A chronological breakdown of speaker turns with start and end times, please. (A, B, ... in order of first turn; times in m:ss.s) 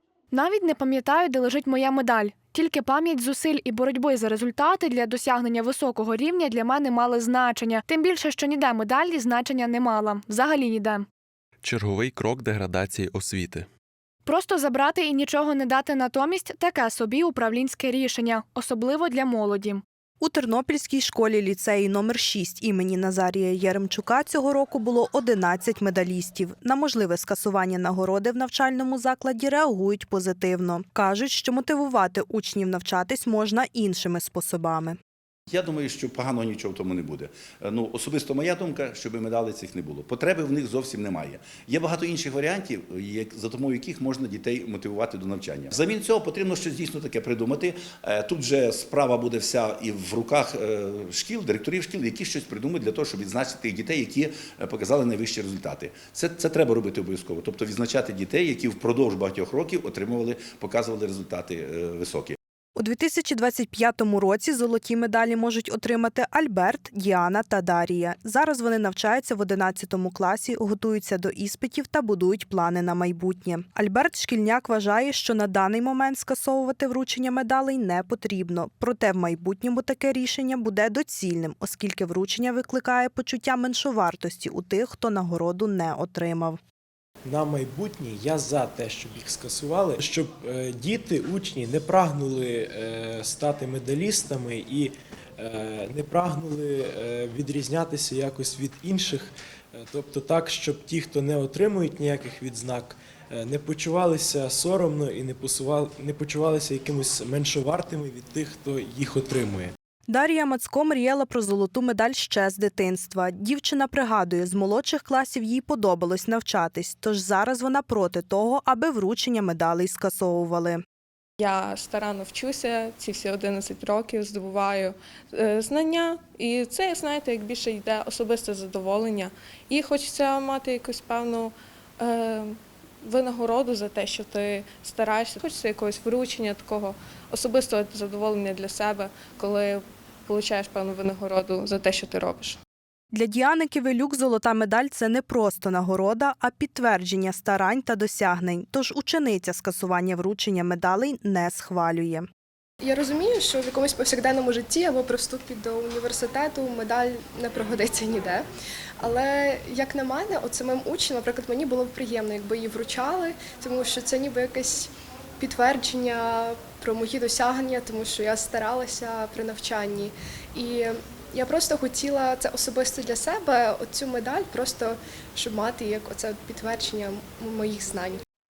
0:00.3-0:11.0 A
0:11.6-0:13.7 B
0:14.2-0:19.8 A
0:20.2-0:35.0 C
0:35.5-1:02.4 D
1:02.8-1:26.6 C
1:27.2-1:49.7 E
1:50.1-2:00.8 C
2:01.4-2:22.6 F
2:23.1-2:32.2 C
2:32.8-2:38.4 G
2:39.0-2:58.2 G